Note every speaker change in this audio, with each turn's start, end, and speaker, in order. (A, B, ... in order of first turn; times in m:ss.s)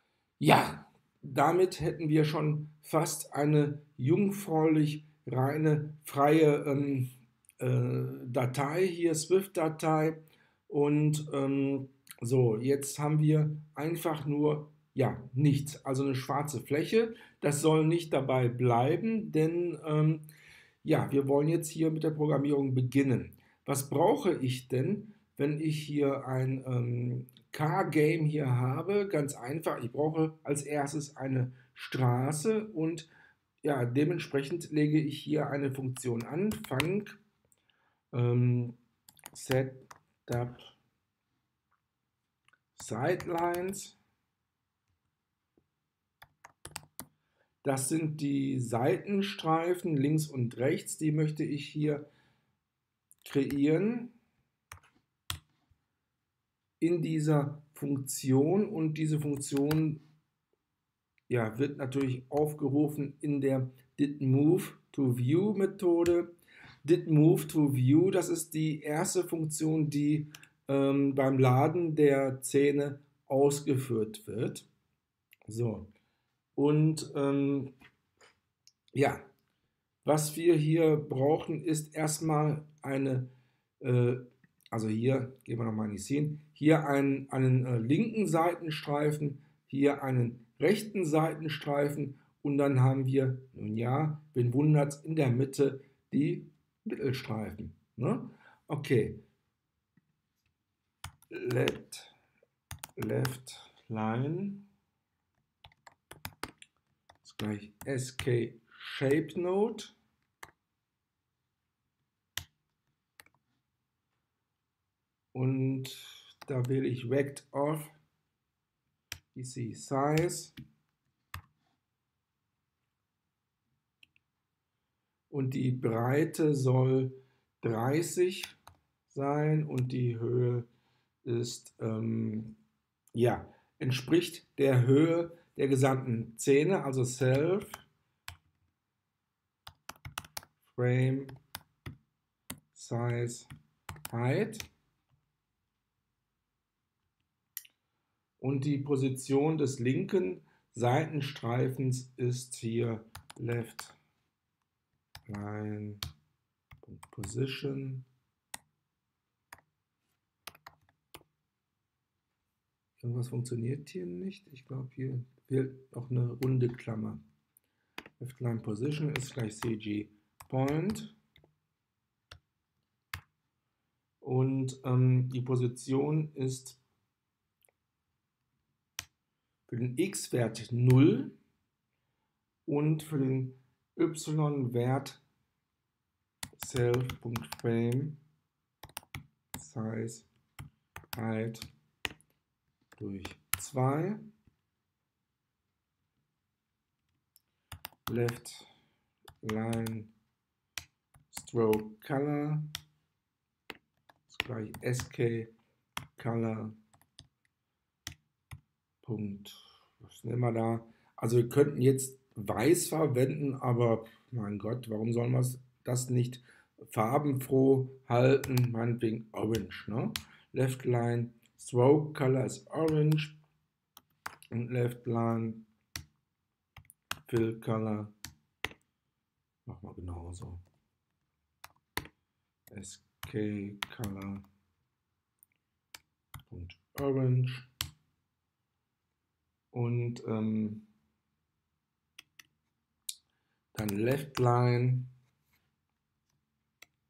0:00.4-0:20.2 A
0:20.8-0:33.1 A
0:33.6-0:37.2 A
0:38.1-0:38.8 A
0:39.3-0:40.8 A
0:42.7-0:44.0 A
0:47.6-0:52.1 A
0:53.2-0:54.1 A
0:56.8-1:00.0 A
1:01.3-1:06.3 A
1:06.8-1:14.7 A
1:15.5-1:15.9 A
1:16.6-1:17.7 A
1:18.9-1:19.3 A
1:20.0-1:39.2 A
1:41.3-1:42.1 A
1:43.0-1:44.6 A
1:47.2-1:50.0 A
1:55.3-1:58.0 A
1:59.3-2:00.5 A
2:05.3-2:08.6 A
2:09.1-2:10.7 A
2:11.2-2:12.6 A
2:13.1-2:17.8 A
2:20.6-2:21.4 A
2:22.7-2:23.5 A
2:24.1-2:24.7 A
2:28.4-2:34.0 A
2:35.3-2:36.0 A
2:36.8-2:38.0 A
2:43.0-2:47.2 A
2:48.2-2:51.2 A
2:54.2-2:56.8 A
2:59.7-3:01.3 A
3:02.6-3:05.2 A
3:06.6-3:08.2 A
3:09.5-3:10.3 A
3:11.1-3:11.7 A
3:13.0-3:14.2 A
3:18.1-3:18.7 A
3:19.4-3:20.1 A
3:21.3-3:22.7 A
3:24.3-3:25.5 A
3:26.2-3:26.8 A
3:29.0-3:43.4 A
3:44.5-3:45.6 A
3:47.3-3:48.1 A
3:49.6-3:50.6 A
3:52.7-3:54.4 A
3:56.5-3:57.7 A
3:59.7-4:00.8 A
4:03.7-4:05.1 A